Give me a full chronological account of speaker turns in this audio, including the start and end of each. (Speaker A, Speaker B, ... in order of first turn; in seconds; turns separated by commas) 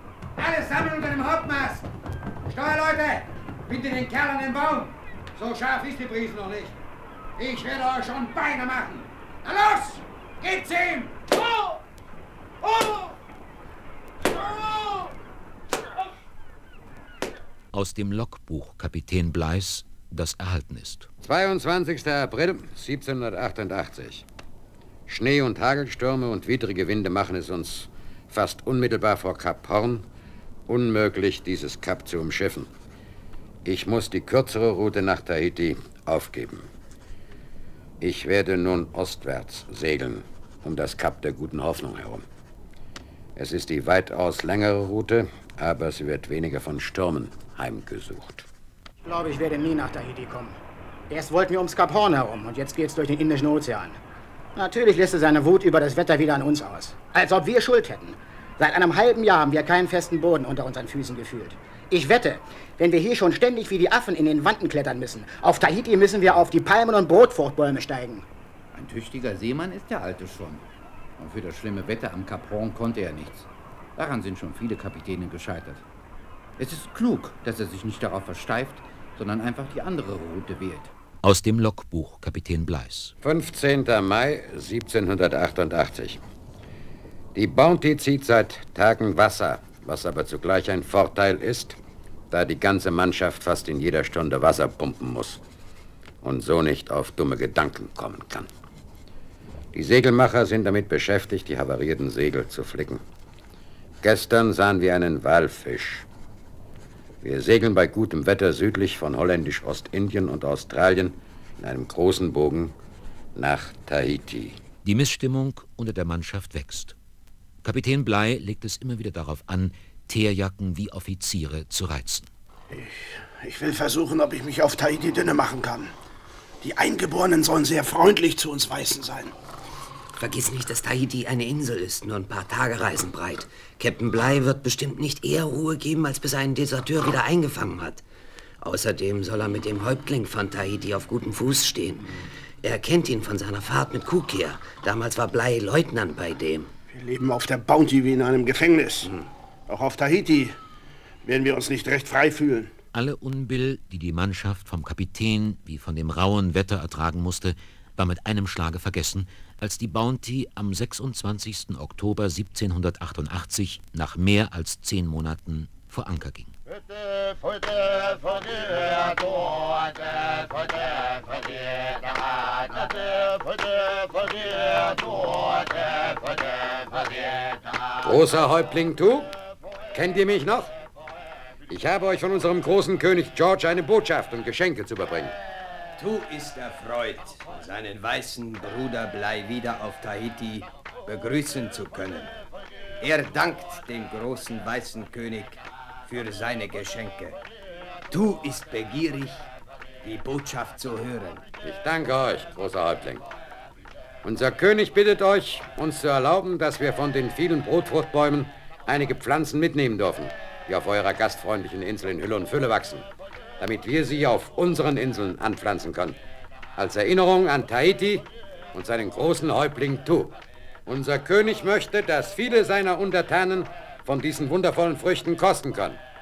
Speaker A: 0.4-1.9, Speaker A: 2.5-6.8, Speaker A: 7.4-11.3, Speaker A: 12.6-12.9, Speaker B: 17.7-21.1, Speaker A: 21.2-24.2, Speaker A: 25.1-30.1, Speaker A: 30.7-32.7, Speaker A: 33.6-36.7, Speaker A: 38.0-42.2, Speaker A: 43.4-48.5, Speaker C: 49.0-50.6, Speaker C: 51.1-54.0, Speaker C: 54.6-68.3, Speaker D: 68.7-70.7, Speaker D: 71.2-75.8, Speaker D: 76.6-80.9, Speaker B: 81.2-83.1, Speaker A: 83.2-86.2, Speaker A: 87.3-91.8, Speaker A: 92.3-95.4, Speaker A: 96.2-98.5, Speaker A: 99.7-103.0, Speaker A: 104.0-106.1, Speaker A: 107.2-112.8, Speaker A: 113.3-114.6, Speaker B: 114.8-117.0, Speaker B: 117.6-122.3, Speaker E: 122.7-125.9, Speaker E: 126.6-129.3, Speaker F: 130.2-138.0, Speaker F: 138.6-146.7, Speaker E: 146.9-149.2, Speaker E: 149.7-150.6, Speaker E: 151.2-152.7, Speaker B: 152.9-166.5, Speaker A: 178.0-179.3, Speaker A: 179.9-180.7, Speaker A: 181.7-185.3, Speaker G: 186.0-192.3, Speaker G: 193.0-197.4, Speaker G: 198.1-199.4, Speaker G: 200.0-201.4, Speaker A: 201.6-203.2, Speaker A: 204.2-213.1, Speaker A: 213.6-216.2, Speaker A: 216.8-220.3, Speaker A: 220.9-226.0